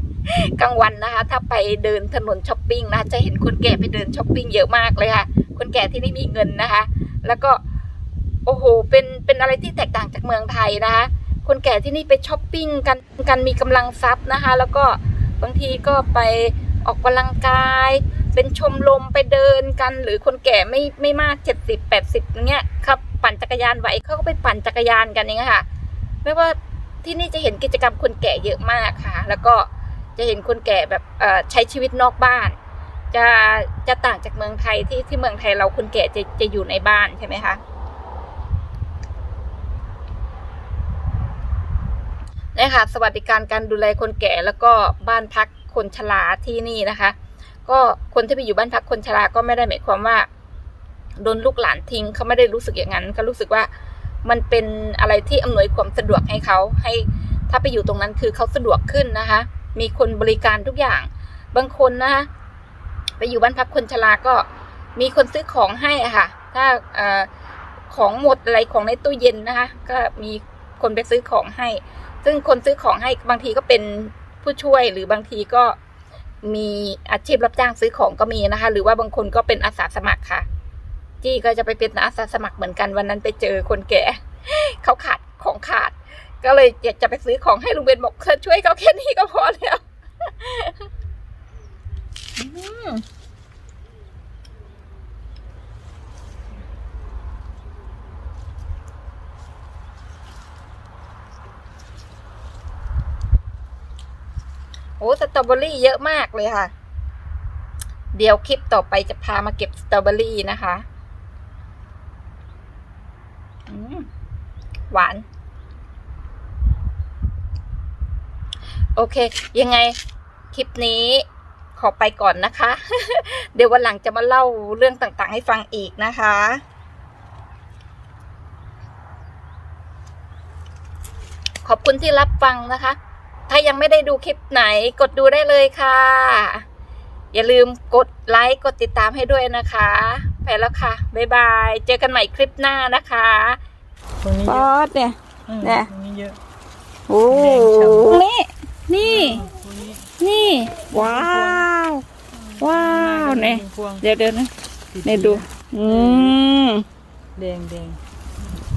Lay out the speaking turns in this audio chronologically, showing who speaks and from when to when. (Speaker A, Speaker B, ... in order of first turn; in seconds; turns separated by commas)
Speaker A: 0.3-7.6, Speaker A: 8.4-25.6, Speaker A: 26.2-32.6, Speaker A: 33.1-37.6, Speaker A: 42.5-47.1, Speaker A: 47.7-50.3, Speaker A: 51.2-53.7, Speaker A: 54.2-62.3, Speaker A: 63.2-67.3, Speaker A: 67.9-75.8, Speaker A: 76.4-80.5, Speaker A: 81.2-90.8, Speaker A: 92.4-93.0, Speaker A: 105.0-106.7, Speaker A: 108.1-110.8, Speaker A: 113.7-114.1, Speaker A: 114.9-115.3, Speaker A: 119.0-120.0, Speaker A: 120.5-126.6, Speaker A: 131.6-133.0, Speaker A: 133.5-136.7, Speaker A: 137.3-143.6, Speaker B: 144.2-144.7, Speaker A: 144.4-145.9, Speaker B: 145.5-146.4, Speaker A: 147.1-149.4, Speaker B: 147.3-148.2, Speaker B: 149.0-150.1, Speaker A: 150.2-152.0, Speaker B: 150.9-151.7, Speaker B: 152.3-154.0, Speaker A: 152.6-154.5, Speaker B: 154.9-156.4, Speaker A: 155.0-156.8, Speaker B: 157.4-158.0